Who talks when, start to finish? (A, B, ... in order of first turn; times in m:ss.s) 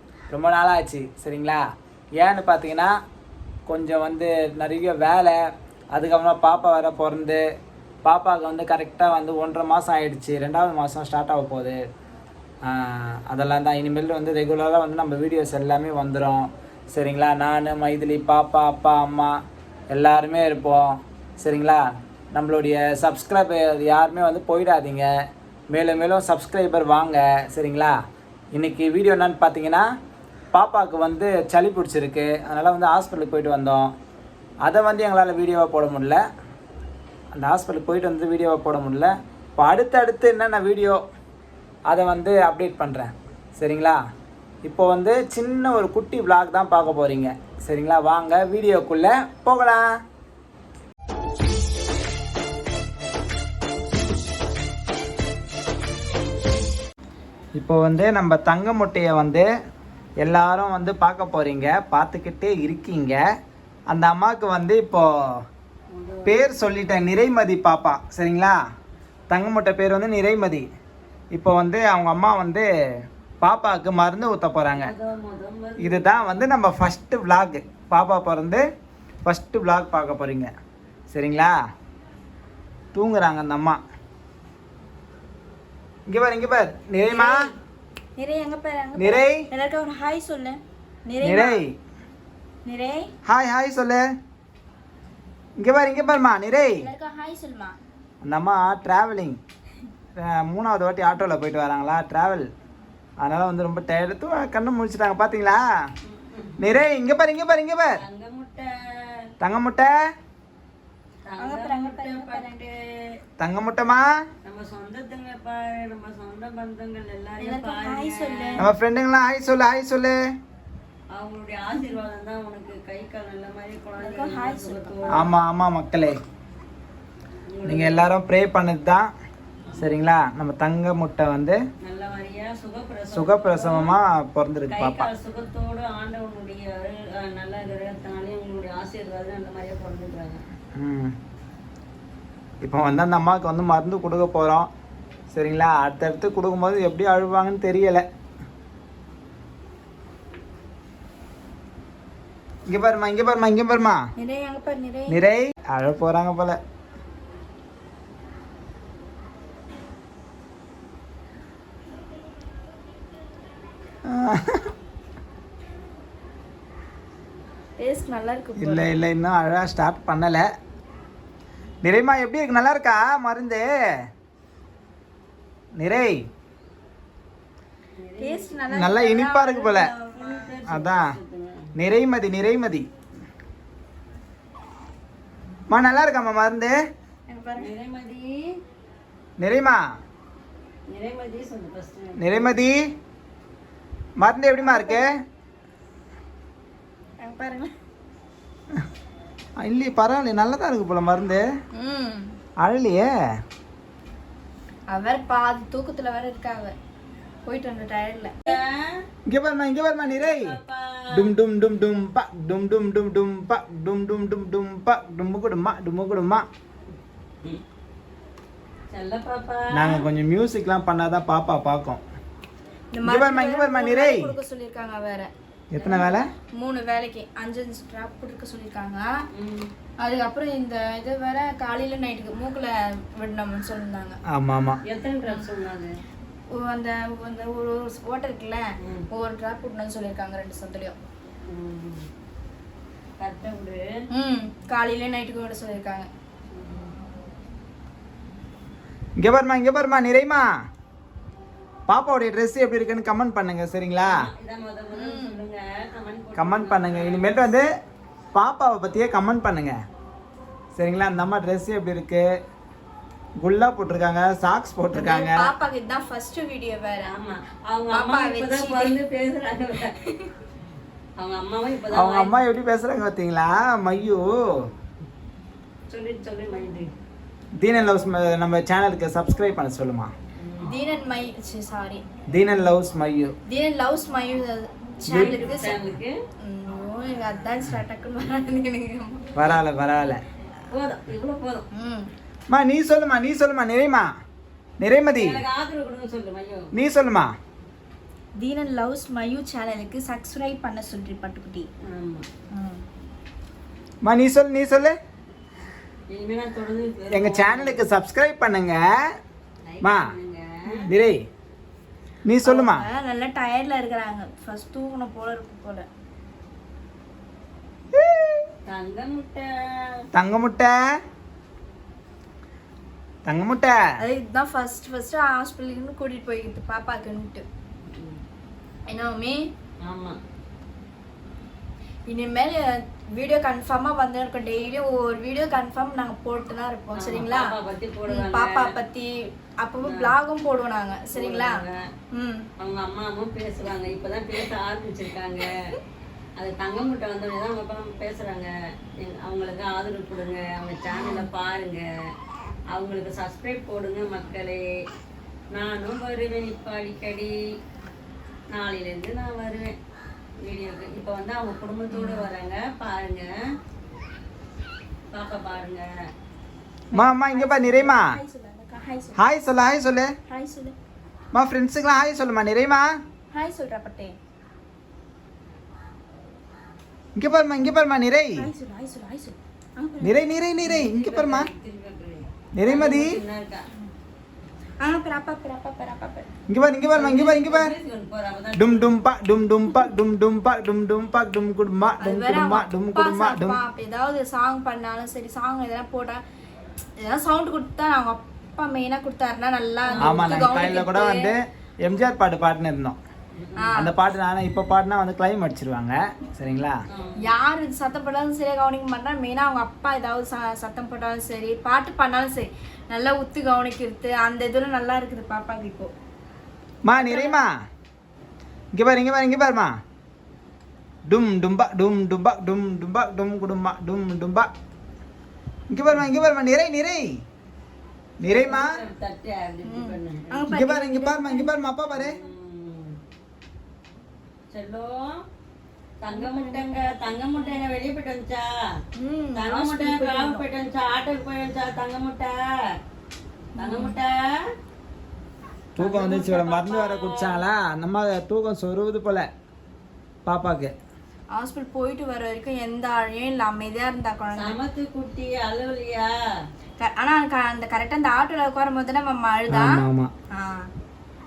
0:00.3-0:01.6 A
0:02.2-0:02.9 A
0:03.7-0:05.4 A
0:05.9-0:07.4 A
0:08.0-0:11.8 A
0:12.6-0:19.4 A
0:19.9-0:21.8 A
0:22.3-0:25.1 A
0:25.7-0:28.0 A
0:28.5-0:29.9 A
0:30.5-0:33.9 A
0:34.6-0:36.2 A
0:37.3-0:41.0 A
0:41.9-0:44.0 A
0:44.6-0:49.9 A
0:57.6-0:59.5 A
1:00.2-1:03.2 A
1:03.9-1:05.1 A
1:05.9-1:06.5 B
1:06.2-1:08.6 A
1:09.3-1:10.7 A
1:11.3-1:12.7 A
1:13.4-1:14.9 A
1:14.7-1:16.4 B
1:15.8-1:18.6 A
1:19.2-1:20.5 A
1:21.1-1:21.5 A
1:22.9-1:23.8 A
1:26.1-1:27.4 A
1:27.1-1:27.5 C
1:28.2-1:31.6 C
1:29.0-1:29.4 A
1:31.2-1:31.7 A
1:32.6-1:33.1 C
1:33.2-1:34.0 A
1:35.6-1:36.8 A
1:36.8-1:37.8 C
1:38.2-1:39.4 A
1:40.2-1:42.5 A
1:43.2-1:45.6 A
1:46.0-1:46.6 B
1:46.6-1:47.9 A
1:48.0-1:48.7 B
1:49.4-1:49.9 A
1:51.2-1:52.7 B
1:51.4-1:52.5 C
1:53.4-1:54.1 A
1:54.4-1:58.7 B
1:57.4-1:58.7 C
1:58.6-2:00.2 A
2:01.1-2:05.2 B
2:04.0-2:05.3 C
2:05.1-2:06.1 A
2:07.5-2:08.1 B
2:07.6-2:09.1 A
2:09.8-2:11.6 A
2:11.8-2:13.9 B
2:13.1-2:15.1 A
2:14.7-2:20.4 B
2:20.8-2:21.1 A
2:22.6-2:24.7 A
2:25.3-2:28.0 A
2:32.7-2:34.0 A
2:34.2-2:35.2 C
2:35.1-2:36.6 A
2:44.1-2:44.7 A
2:47.8-2:48.9 C
2:48.6-2:50.5 A
2:51.8-2:53.7 A
2:55.8-2:56.2 A
2:58.0-2:58.6 B
2:58.2-3:00.6 C
2:58.7-2:59.9 A
3:00.1-3:01.7 B
3:00.7-3:01.1 A
3:01.8-3:02.9 A
3:05.7-3:06.8 A
3:07.3-3:07.7 C
3:07.6-3:08.5 B
3:09.4-3:09.8 A
3:10.9-3:12.6 B
3:12.2-3:12.9 A
3:14.2-3:15.1 A
3:14.6-3:15.0 C
3:17.2-3:17.7 C
3:19.6-3:21.4 A
3:21.8-3:22.3 C
3:22.6-3:23.1 A
3:24.9-3:26.8 C
3:27.4-3:28.6 C
3:28.4-3:28.9 B
3:29.3-3:30.6 A
3:30.0-3:31.3 B
3:31.1-3:36.4 A
3:38.9-3:40.0 B
3:39.7-3:42.0 A
3:42.9-3:45.3 C
3:43.0-3:44.3 A
3:45.8-3:46.3 A
3:45.8-3:46.2 B
3:46.6-3:49.1 C
3:49.3-3:49.7 B
3:50.0-3:54.2 C
3:54.3-3:54.8 A
3:54.8-3:55.9 B
3:56.5-4:01.0 C
3:58.8-3:59.1 B
4:01.5-4:02.1 B
4:03.2-4:03.8 B
4:04.1-4:06.1 C
4:06.5-4:06.9 B
4:09.2-4:10.5 A
4:11.9-4:14.2 A
4:14.0-4:17.6 B
4:14.9-4:15.4 C
4:16.4-4:17.7 A
4:18.3-4:19.8 A
4:20.8-4:22.3 A
4:23.4-4:25.5 A
4:24.9-4:27.1 C
4:27.0-4:30.0 B
4:27.9-4:29.0 C
4:31.2-4:32.4 B
4:31.9-4:34.2 A
4:35.9-4:36.9 B
4:37.6-4:40.1 A
4:40.4-4:40.7 B
4:40.7-4:42.0 C
4:42.3-4:43.3 A
4:43.5-4:45.8 C
4:45.1-4:45.4 A
4:45.1-4:46.2 B
4:46.4-4:49.3 C
4:49.4-4:50.2 A
4:50.7-4:51.7 B
4:51.7-4:52.1 C
4:52.5-4:54.1 A
4:54.8-4:55.4 A
4:55.1-4:56.7 B
4:56.7-4:57.3 A
4:58.4-5:01.7 C
5:01.9-5:02.2 B
5:02.5-5:02.8 C
5:04.0-5:05.0 A
5:06.1-5:07.8 B
5:07.1-5:08.9 A
5:09.7-5:10.9 B
5:09.8-5:10.1 A
5:10.7-5:10.9 C
5:10.9-5:11.2 A
5:12.3-5:12.9 A
5:12.4-5:15.9 C
5:17.9-5:18.5 A
5:18.7-5:19.5 B
5:20.1-5:20.8 A
5:23.2-5:23.8 A
5:24.0-5:27.4 C
5:27.9-5:28.2 B
5:28.9-5:29.5 C
5:29.8-5:30.2 B
5:32.1-5:37.6 C
5:37.0-5:38.7 B
5:38.1-5:41.6 C
5:39.8-5:40.1 B
5:41.2-5:41.8 B
5:42.1-5:42.5 C
5:42.6-5:45.5 B
5:46.4-5:51.9 B
5:50.9-5:51.3 C
5:52.7-5:54.6 B
5:55.5-5:57.3 B
5:58.5-5:59.8 B
6:00.4-6:03.3 B
6:01.9-6:02.3 C
6:05.1-6:05.9 B
6:06.9-6:09.2 C
6:06.9-6:08.1 A
6:09.2-6:10.1 A
6:10.3-6:10.8 C
6:11.3-6:12.9 A
6:13.3-6:14.2 C
6:17.2-6:18.5 A
6:18.4-6:20.2 C
6:20.0-6:21.5 A
6:20.6-6:23.7 B
6:22.6-6:23.1 A
6:24.8-6:26.3 C
6:26.5-6:27.7 A
6:27.0-6:28.9 B
6:28.6-6:33.6 A
6:32.0-6:36.2 C
6:37.0-6:41.3 C
6:39.9-6:40.9 B
6:40.0-6:43.0 A
6:43.4-6:43.7 B
6:43.6-6:44.0 C
6:43.7-6:46.8 A
6:46.9-6:47.2 B
6:47.2-6:55.9 C
6:56.8-6:57.5 A
6:57.0-6:57.4 C
6:58.8-6:59.7 A
7:01.1-7:04.5 A
7:05.7-7:07.1 A
7:08.2-7:08.7 A
7:08.2-7:10.5 B
7:09.6-7:11.5 C
7:10.5-7:12.2 A
7:11.9-7:13.0 B
7:14.5-7:15.2 B
7:16.0-7:18.5 B
7:16.1-7:16.9 C
7:19.0-7:20.5 C
7:19.4-7:22.4 B
7:23.6-7:24.0 C
7:23.6-7:24.3 B
7:25.8-7:29.3 A
7:25.8-7:27.4 B
7:30.2-7:30.7 A
7:31.3-7:34.6 C
7:34.3-7:36.1 B
7:36.8-7:39.8 C
7:39.5-7:40.1 A
7:40.3-7:40.7 C